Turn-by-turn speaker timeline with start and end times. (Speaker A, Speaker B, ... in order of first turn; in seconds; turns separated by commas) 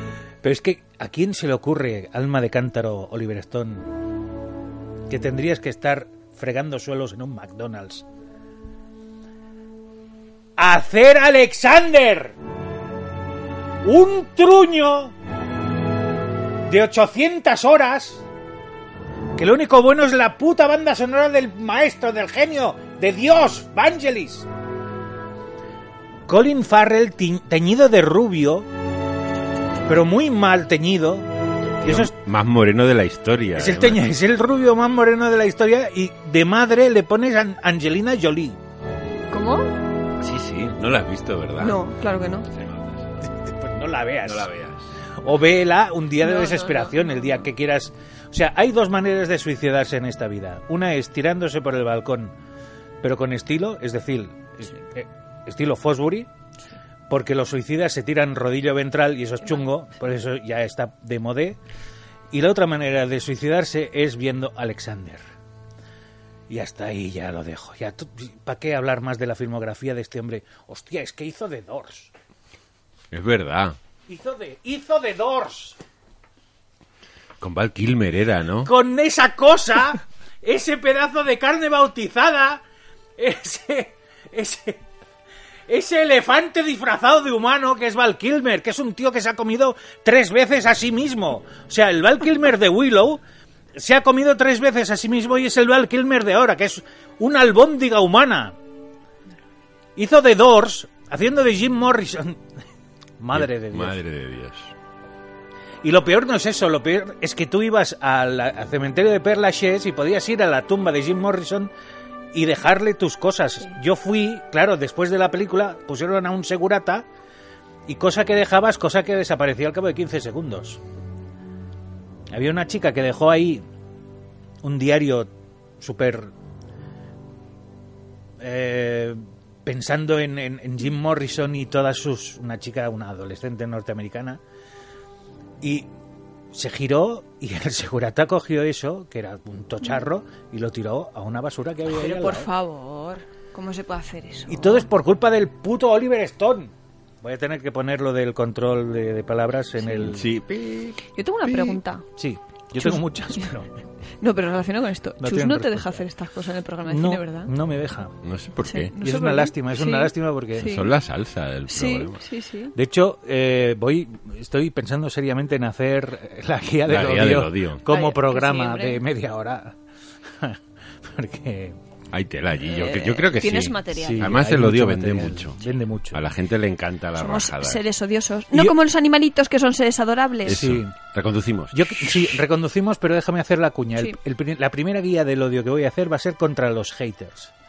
Speaker A: 0.4-4.0, Speaker A: 5.1-8.1, Speaker A: 10.6-12.3, Speaker A: 13.8-15.1, Speaker A: 16.7-18.2, Speaker A: 19.4-24.5, Speaker A: 26.3-28.7, Speaker A: 29.9-31.3, Speaker B: 31.8-34.0, Speaker A: 31.8-32.1, Speaker A: 33.6-38.6, Speaker C: 39.3-39.7, Speaker B: 40.2-41.8, Speaker C: 41.6-42.5, Speaker B: 42.5-43.1, Speaker A: 43.2-44.5, Speaker B: 44.2-44.9, Speaker A: 45.2-52.3, Speaker C: 46.2-47.4, Speaker A: 53.0-56.3, Speaker A: 57.1-61.6, Speaker C: 59.4-59.7, Speaker A: 62.3-65.2, Speaker A: 66.5-72.1, Speaker B: 73.1-73.8, Speaker A: 74.1-75.8, Speaker B: 77.4-78.7, Speaker A: 78.7-82.6, Speaker A: 83.2-84.8, Speaker A: 85.7-93.2, Speaker A: 93.8-98.5, Speaker A: 100.0-102.4, Speaker A: 103.2-104.0, Speaker B: 103.3-104.7, Speaker A: 105.8-111.7, Speaker A: 112.3-117.1, Speaker A: 117.9-120.8, Speaker A: 122.3-123.6, Speaker A: 124.6-126.3, Speaker A: 128.4-134.4, Speaker A: 135.6-135.9, Speaker A: 136.5-142.5, Speaker C: 141.9-144.9, Speaker A: 144.5-150.3, Speaker C: 149.8-150.1, Speaker B: 150.0-151.8, Speaker C: 151.1-152.1, Speaker A: 152.2-153.7, Speaker C: 152.8-153.5, Speaker C: 154.2-157.5, Speaker A: 155.2-156.1, Speaker A: 156.9-158.2, Speaker B: 158.2-158.9, Speaker C: 158.7-160.9, Speaker A: 159.0-160.8, Speaker B: 160.6-162.2, Speaker C: 161.7-162.8, Speaker A: 162.8-169.8, Speaker B: 166.9-167.8, Speaker C: 167.9-169.0, Speaker A: 170.4-171.8, Speaker B: 172.1-175.6, Speaker C: 172.6-174.3, Speaker A: 173.9-176.2, Speaker B: 176.1-177.8, Speaker C: 177.2-180.6, Speaker B: 180.5-182.4, Speaker A: 180.5-181.0, Speaker A: 181.7-187.5